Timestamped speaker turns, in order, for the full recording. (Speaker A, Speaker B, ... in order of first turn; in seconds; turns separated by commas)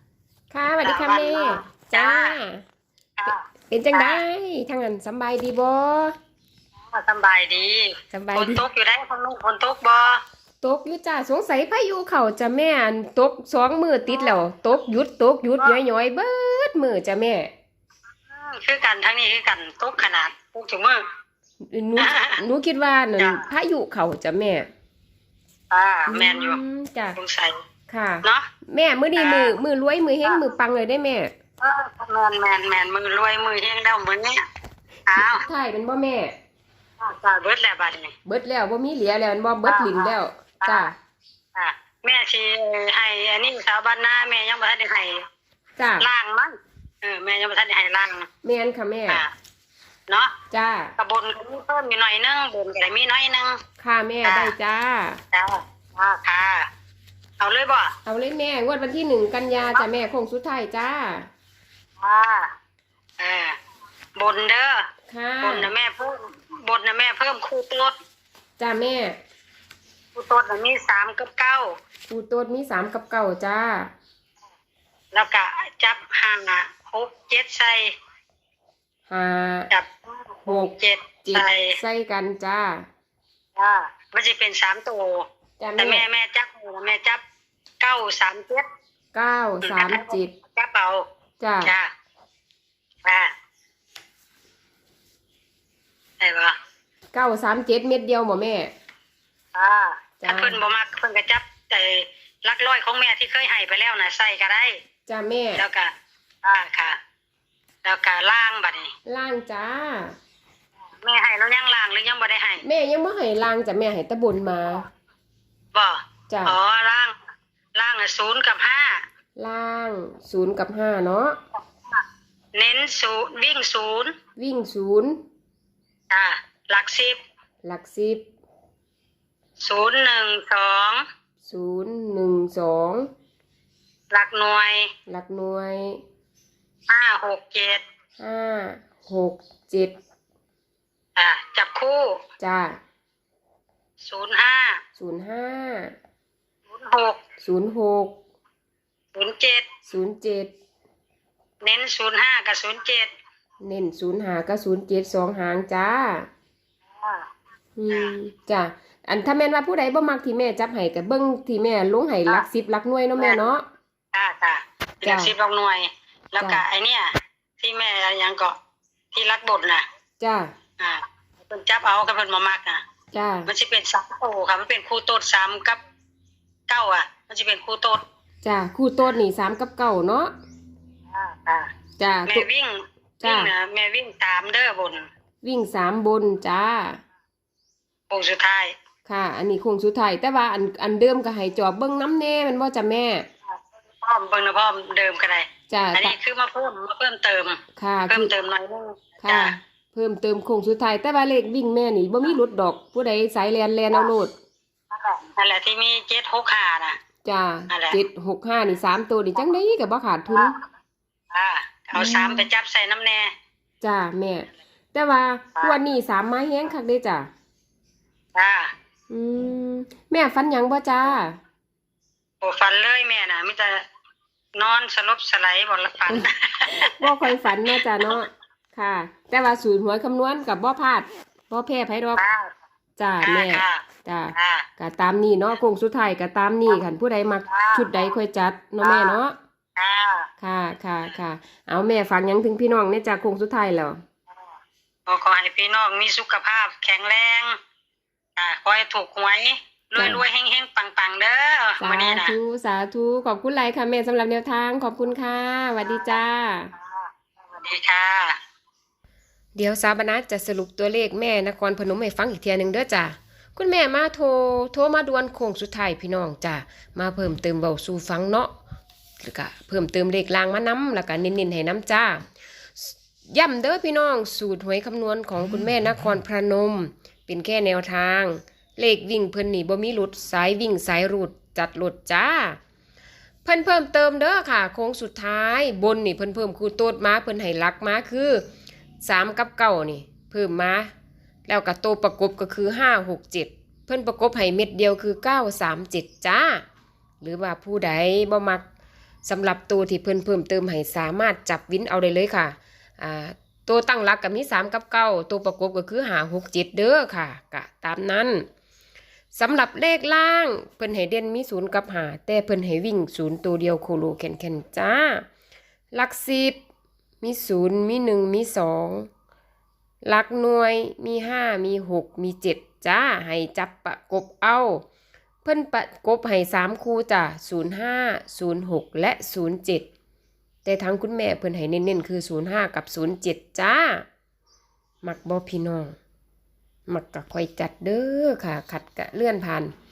Speaker A: 0.5-2.6, Speaker B: 0.8-2.4, Speaker B: 3.2-4.2, Speaker A: 3.7-6.1, Speaker B: 6.9-10.2, Speaker A: 8.1-8.6, Speaker A: 10.6-17.5, Speaker B: 14.1-14.4, Speaker B: 18.3-21.0, Speaker A: 21.7-24.7, Speaker B: 22.0-22.4, Speaker B: 23.2-23.5, Speaker B: 25.7-26.6, Speaker A: 26.1-27.2, Speaker B: 27.1-27.6, Speaker A: 27.9-31.3, Speaker B: 29.2-29.6, Speaker B: 31.6-34.4, Speaker B: 35.1-35.4, Speaker A: 35.2-36.3, Speaker B: 37.0-38.1, Speaker A: 38.2-40.9, Speaker B: 39.6-40.9, Speaker B: 41.5-45.2, Speaker A: 45.8-46.1, Speaker B: 46.0-48.3, Speaker A: 48.4-49.2, Speaker A: 50.5-50.9, Speaker B: 51.0-53.6, Speaker A: 53.8-55.2, Speaker B: 54.2-54.5, Speaker B: 55.3-56.7, Speaker B: 57.4-57.9, Speaker A: 58.0-61.3, Speaker B: 62.0-62.5, Speaker B: 63.2-63.5, Speaker B: 64.2-64.8, Speaker A: 65.1-65.7, Speaker B: 65.4-68.0, Speaker A: 68.6-69.2, Speaker B: 70.1-71.7, Speaker A: 72.1-73.9, Speaker B: 75.1-77.9, Speaker A: 79.1-79.7, Speaker B: 79.7-81.8, Speaker A: 80.5-80.7, Speaker A: 81.2-82.8, Speaker B: 83.6-85.2, Speaker A: 85.6-86.0, Speaker B: 85.8-87.2, Speaker B: 87.8-88.6, Speaker A: 89.1-90.3, Speaker B: 89.6-91.0, Speaker A: 91.4-91.7, Speaker B: 91.6-91.9, Speaker B: 93.0-93.3, Speaker B: 96.2-96.5, Speaker A: 97.1-98.7, Speaker B: 99.5-104.7, Speaker A: 100.2-100.6, Speaker A: 105.1-105.6, Speaker B: 105.6-105.9, Speaker B: 106.4-107.0, Speaker B: 107.8-108.9, Speaker A: 109.1-110.1, Speaker B: 111.0-112.6, Speaker A: 112.6-114.8, Speaker B: 115.7-117.2, Speaker A: 116.3-116.6, Speaker B: 117.7-119.0, Speaker A: 119.4-121.4, Speaker B: 122.5-124.1, Speaker A: 124.4-125.2, Speaker B: 126.1-127.2, Speaker A: 127.6-128.2, Speaker B: 129.6-131.0, Speaker A: 131.4-133.1, Speaker B: 134.1-134.9, Speaker A: 135.1-136.0, Speaker B: 136.9-137.8, Speaker A: 138.2-139.9, Speaker B: 141.2-142.1, Speaker A: 142.4-142.8, Speaker B: 144.0-144.7, Speaker A: 144.9-145.9, Speaker B: 146.7-147.2, Speaker A: 147.4-148.1, Speaker B: 149.2-149.7, Speaker A: 149.8-150.5, Speaker B: 151.6-153.1, Speaker A: 153.6-156.3, Speaker B: 156.9-157.3, Speaker A: 157.8-163.6, Speaker B: 163.2-163.4, Speaker B: 164.1-168.6, Speaker A: 165.0-165.3, Speaker B: 169.1-169.8, Speaker A: 170.2-170.5, Speaker B: 170.8-172.8, Speaker A: 173.1-173.5, Speaker B: 173.5-175.8, Speaker B: 176.7-178.0, Speaker A: 178.4-180.3, Speaker B: 181.1-181.7, Speaker A: 182.0-182.4, Speaker B: 182.3-185.1, Speaker A: 183.2-183.5, Speaker A: 185.4-187.0, Speaker B: 188.1-188.7, Speaker A: 189.1-193.2, Speaker B: 193.5-199.5, Speaker A: 195.7-196.1, Speaker A: 197.8-198.3, Speaker A: 199.2-204.3, Speaker B: 204.9-207.0, Speaker A: 207.2-210.5, Speaker B: 207.7-208.0, Speaker B: 210.3-210.6, Speaker B: 211.3-213.3, Speaker A: 211.9-212.4, Speaker A: 213.8-217.3, Speaker B: 218.3-218.7, Speaker A: 219.1-221.4, Speaker B: 222.4-223.8, Speaker B: 224.6-228.2, Speaker A: 226.1-232.2, Speaker B: 232.2-232.5, Speaker A: 233.0-239.3, Speaker B: 233.2-234.7, Speaker B: 237.5-238.1, Speaker B: 238.8-239.2, Speaker B: 239.8-240.3, Speaker A: 240.4-244.0, Speaker B: 245.1-247.6, Speaker B: 248.3-252.3, Speaker A: 250.0-250.2, Speaker A: 251.8-256.7, Speaker B: 255.8-256.2, Speaker B: 256.7-258.4, Speaker A: 259.6-268.5, Speaker A: 269.2-272.2, Speaker A: 272.8-282.6, Speaker A: 283.4-288.4, Speaker A: 289.0-290.9, Speaker A: 291.5-296.6, Speaker A: 297.2-298.6, Speaker A: 299.2-308.4, Speaker A: 309.3-315.2, Speaker A: 315.9-316.6, Speaker A: 317.2-319.1, Speaker A: 320.1-324.8, Speaker A: 325.4-329.9, Speaker A: 330.6-334.0, Speaker A: 335.0-336.0, Speaker A: 336.9-339.7